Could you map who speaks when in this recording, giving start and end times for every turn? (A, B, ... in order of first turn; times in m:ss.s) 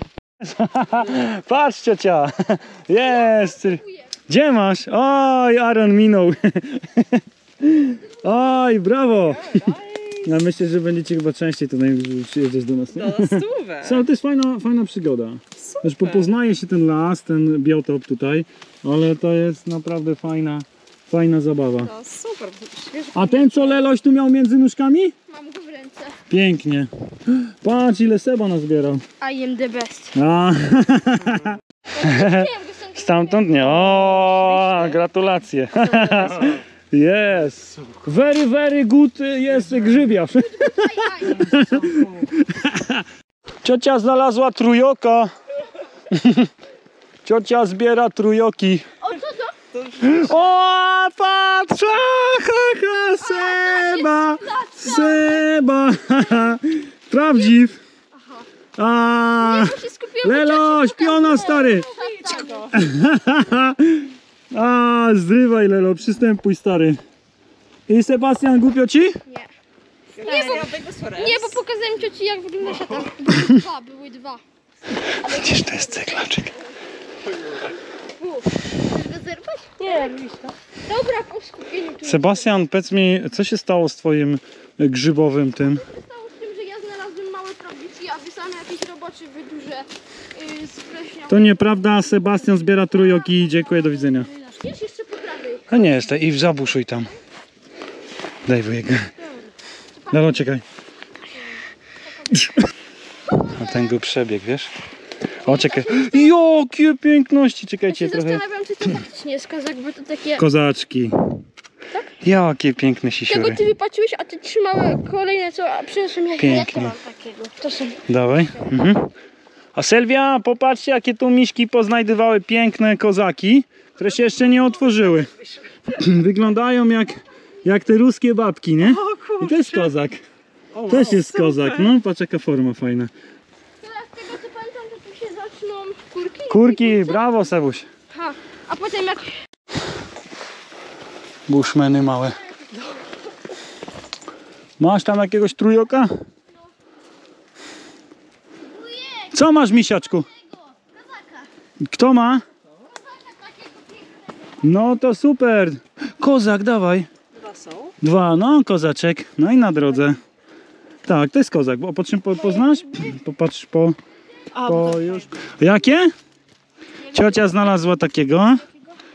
0:00.4-0:09.6 A
0:03.2-0:04.1 B
0:09.2-0:10.4 C
0:10.2-0:21.9 A
0:12.9-0:14.0 C
0:15.6-0:16.3 C
0:21.8-0:23.9 C
0:23.1-0:25.1 A
0:25.3-0:26.2 B
0:26.3-0:29.0 A
0:29.2-0:30.1 B
0:30.1-0:43.0 A
0:31.9-0:35.0 B
0:40.4-0:41.6 B
0:43.6-0:45.3 A
0:46.1-0:46.5 A
0:47.2-0:48.8 A
0:49.0-0:49.5 B
0:49.8-0:50.2 C
0:50.0-0:57.8 A
0:53.2-0:55.5 B
0:58.2-0:58.4 B
0:58.8-1:01.9 A
0:59.4-1:02.8 B
1:01.9-1:02.8 C
1:02.7-1:07.0 A
1:07.9-1:09.2 A
1:10.1-1:11.6 C
1:10.2-1:14.4 B
1:15.2-1:16.5 A
1:15.2-1:15.7 B
1:18.2-1:20.2 B
1:19.8-1:20.5 C
1:20.8-1:22.5 B
1:22.0-1:25.8 A
1:25.6-1:33.5 B
1:31.3-1:34.3 A
1:34.4-1:35.7 B
1:35.7-1:37.1 A
1:38.4-1:39.1 A
1:39.9-1:40.5 B
1:40.1-1:40.6 A
1:42.3-1:42.6 A
1:43.3-1:43.8 B
1:43.4-1:44.7 A
1:45.4-1:46.3 B
1:45.4-1:48.4 A
1:47.9-1:50.4 B
1:50.4-1:51.3 A
1:52.2-1:53.6 A
1:53.3-1:58.0 B
1:56.4-1:57.0 A
1:58.1-1:59.1 A
1:59.7-2:05.3 A
2:04.9-2:05.2 C
2:05.9-2:10.2 A
2:08.8-2:09.9 C
2:10.8-2:11.9 C
2:10.8-2:13.1 A
2:13.8-2:17.2 B
2:16.5-2:17.9 A
2:18.1-2:19.4 B
2:21.5-2:22.4 A
2:24.8-2:26.1 A
2:28.8-2:29.3 B
2:29.3-2:30.3 A
2:31.8-2:32.4 A
2:33.2-2:33.8 B
2:34.6-2:37.1 A
2:37.4-2:37.9 C
2:38.0-2:40.2 A
2:41.0-2:44.0 A
2:42.4-2:42.8 B
2:44.5-2:45.3 C
2:44.6-2:46.1 A
2:47.0-2:47.6 B
2:47.1-2:48.6 A